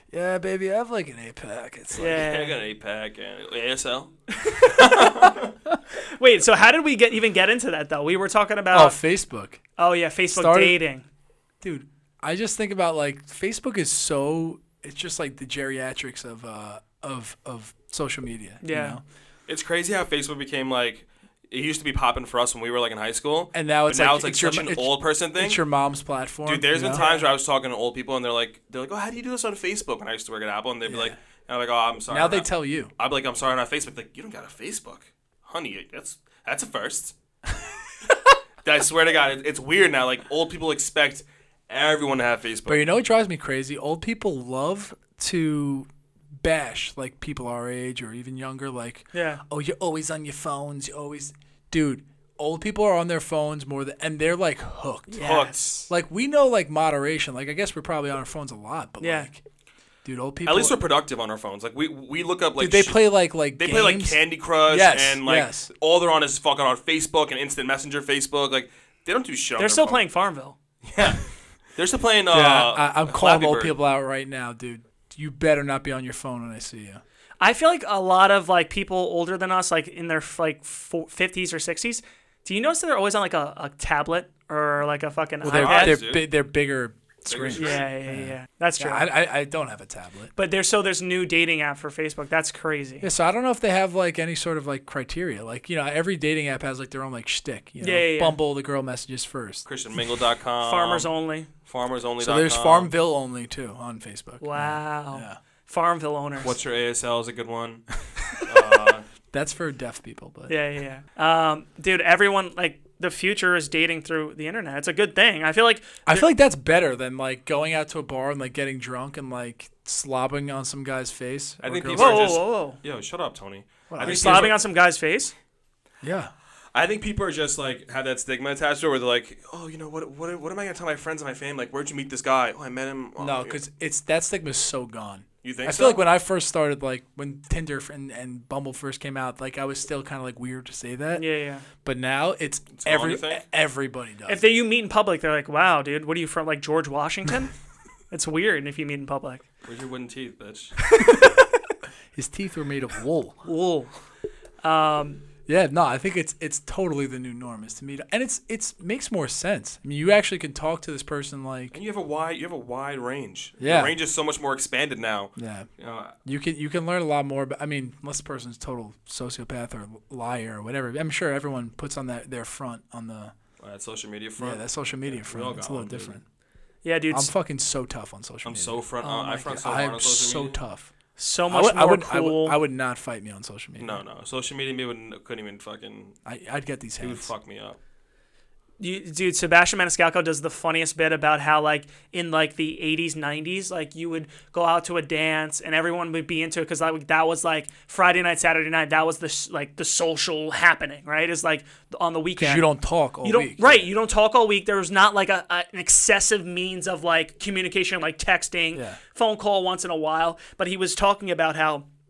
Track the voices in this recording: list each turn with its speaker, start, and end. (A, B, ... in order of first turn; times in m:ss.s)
0:00.1-0:02.1 A
0:02.0-0:05.5 B
0:02.0-0:02.6 C
0:04.3-0:05.3 C
0:06.0-0:09.0 C
0:08.7-0:09.6 A
0:09.8-0:11.0 C
0:10.3-0:10.8 A
0:11.6-0:19.0 A
0:18.6-0:19.0 C
0:19.5-0:25.6 B
0:23.5-0:27.0 A
0:26.5-0:37.1 B
0:26.9-0:27.3 C
0:30.9-0:31.1 A
0:32.1-0:32.9 A
0:38.6-0:42.8 B
0:42.7-0:45.9 A
0:46.4-0:55.2 A
0:49.1-0:49.4 C
0:55.1-0:55.9 C
0:55.2-0:55.7 B
0:55.9-0:59.4 A
0:59.0-0:59.3 C
1:00.0-1:00.8 A
1:00.4-1:10.0 B
1:02.6-1:05.7 A
1:09.6-1:10.6 C
1:10.8-1:11.2 B
1:11.8-1:13.7 B
1:12.3-1:17.0 A
1:17.4-1:26.0 C
1:25.4-1:30.3 A
1:25.5-1:26.3 B
1:27.3-1:27.9 B
1:27.6-1:29.1 C
1:30.4-1:33.1 C
1:33.0-1:39.7 A
1:37.8-1:38.4 C
1:39.7-1:41.1 B
1:40.6-1:41.5 C
1:41.6-1:42.9 B
1:42.2-1:45.4 A
1:44.4-1:46.6 C
1:46.4-1:49.1 B
1:49.3-1:50.5 A
1:50.5-1:56.3 C
1:56.1-2:02.3 A
2:01.6-2:04.6 B
2:01.9-2:02.8 C
2:03.9-2:04.5 A
2:04.0-2:05.3 C
2:06.0-2:06.3 A
2:06.7-2:13.6 B
2:13.2-2:21.2 A
2:15.4-2:16.0 B
2:21.1-2:21.7 C
2:21.8-2:24.4 A
2:22.7-2:23.4 B
2:24.3-2:27.5 C
2:28.1-2:29.4 C
2:29.6-2:30.8 B
2:31.0-2:31.5 A
2:32.1-2:33.4 A
2:33.4-2:33.9 C
2:34.6-2:35.2 C
2:35.5-2:41.8 A
2:41.7-2:46.2 B
2:43.6-2:44.0 A
2:45.4-2:45.7 A
2:46.2-2:53.3 A
2:53.6-2:56.2 B
2:54.4-2:56.2 A
2:56.8-2:57.3 C
2:57.1-3:00.9 A
2:58.4-3:00.6 B
2:59.0-2:59.5 C
3:01.2-3:02.6 C
3:01.5-3:04.0 A
3:03.8-3:06.2 B
3:06.2-3:07.3 A
3:07.0-3:07.8 B
3:08.8-3:22.7 C
3:22.4-3:23.9 A
3:23.2-3:31.9 C